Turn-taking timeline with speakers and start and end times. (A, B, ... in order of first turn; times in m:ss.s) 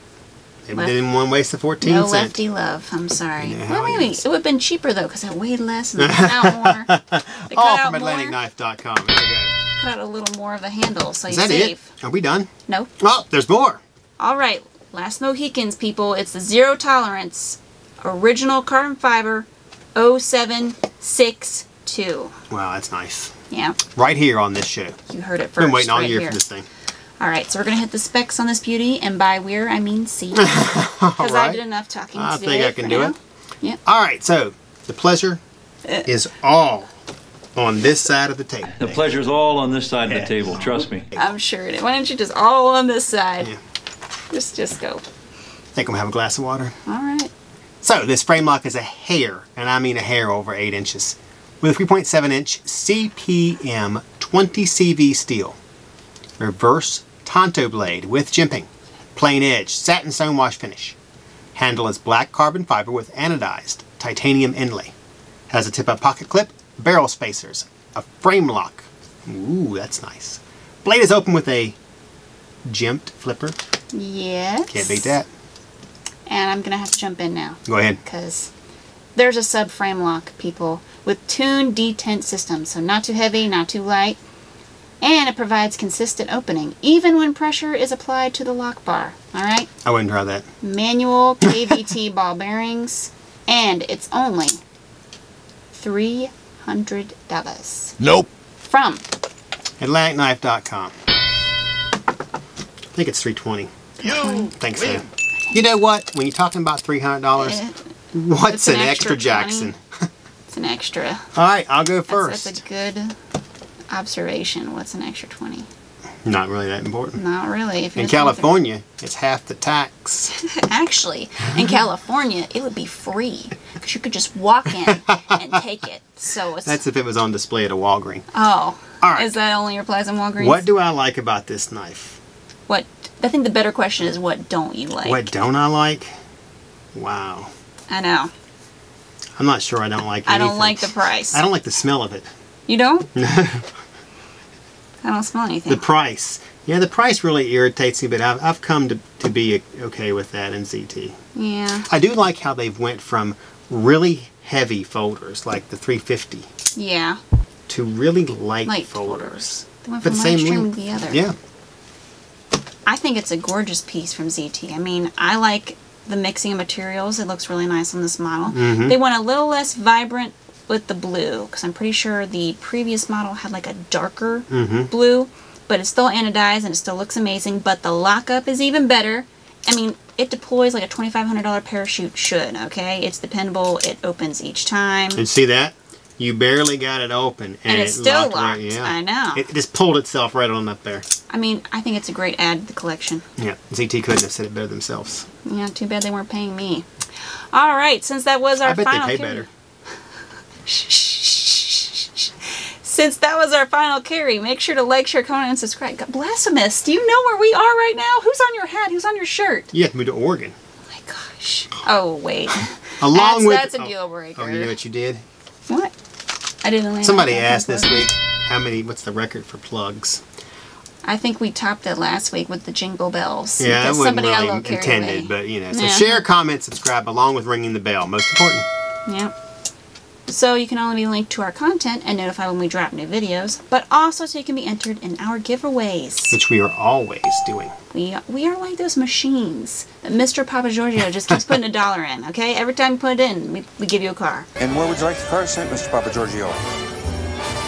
0:00.6-0:02.4 A
0:01.8-0:06.9 B
0:03.4-0:04.2 A
0:06.0-0:09.5 A
0:07.5-0:08.4 B
0:09.8-0:11.9 B
0:11.3-0:13.8 A
0:14.2-0:22.4 B
0:22.5-0:23.3 A
0:23.5-0:23.8 B
0:23.9-0:25.0 A
0:25.1-0:26.4 B
0:25.6-0:26.6 A
0:27.2-0:33.8 B
0:30.3-0:31.6 A
0:32.2-0:33.1 A
0:33.8-0:35.4 A
0:36.0-0:36.9 A
0:37.6-0:39.0 A
0:38.8-0:41.1 C
0:40.1-0:41.3 A
0:41.2-0:43.5 B
0:44.3-0:45.0 B
0:45.7-0:46.8 A
0:46.8-0:47.3 B
0:47.8-0:55.6 A
0:56.4-1:01.0 A
1:01.5-1:04.9 A
1:05.5-1:11.8 A
1:12.6-1:13.6 A
1:13.9-1:15.2 B
1:14.7-1:15.3 A
1:16.3-1:18.5 B
1:17.6-1:18.0 A
1:19.1-1:24.2 B
1:25.0-1:29.7 B
1:29.8-1:30.5 A
1:30.6-1:34.6 B
1:35.7-1:37.9 B
1:38.0-1:38.3 D
1:38.6-1:39.0 B
1:39.8-1:40.9 A
1:42.9-1:47.6 A
1:44.0-1:44.5 B
1:44.0-1:45.0 D
1:47.4-1:47.8 B
1:48.1-1:50.1 A
1:48.5-1:49.7 B
1:50.5-1:51.3 B
1:51.3-1:52.6 A
1:52.1-1:53.1 B
1:53.9-1:55.7 B
1:56.2-1:57.2 A
1:57.2-1:58.5 B
1:58.0-2:00.3 A
2:00.3-2:06.8 B
2:04.9-2:05.6 A
2:06.6-2:08.2 A
2:08.3-2:10.6 B
2:09.0-2:09.3 A
2:10.4-2:12.2 A
2:12.7-2:15.3 B
2:15.0-2:16.1 A
2:16.9-2:17.5 A
2:17.9-2:18.3 B
2:19.4-2:22.3 A
2:20.2-2:21.4 B
2:22.7-2:23.1 B
2:23.1-2:23.7 A
2:25.0-2:25.8 B
2:25.7-2:31.2 A
2:31.3-2:31.9 B
2:31.9-2:36.5 A
2:36.8-2:37.2 B
2:37.7-2:41.3 A
2:38.6-2:41.2 B
2:42.8-3:05.2 B
2:48.5-2:49.0 A
2:54.5-2:54.9 A
3:05.2-3:11.0 A
3:07.7-3:09.4 B
3:11.3-3:13.2 B
3:13.4-3:15.3 A
3:15.4-3:16.9 B
3:17.5-3:19.5 B
3:18.6-3:19.5 A
3:20.6-3:29.7 B
3:29.7-3:30.6 A
3:30.9-3:34.7 B
3:33.0-3:35.2 A
3:36.6-3:38.1 B
3:37.0-3:40.2 A
3:41.0-3:46.2 B
3:43.6-3:48.6 A
3:49.1-3:49.3 B
3:50.3-3:56.4 B
3:56.3-3:57.7 A
3:57.9-4:04.5 B
4:04.6-4:06.6 D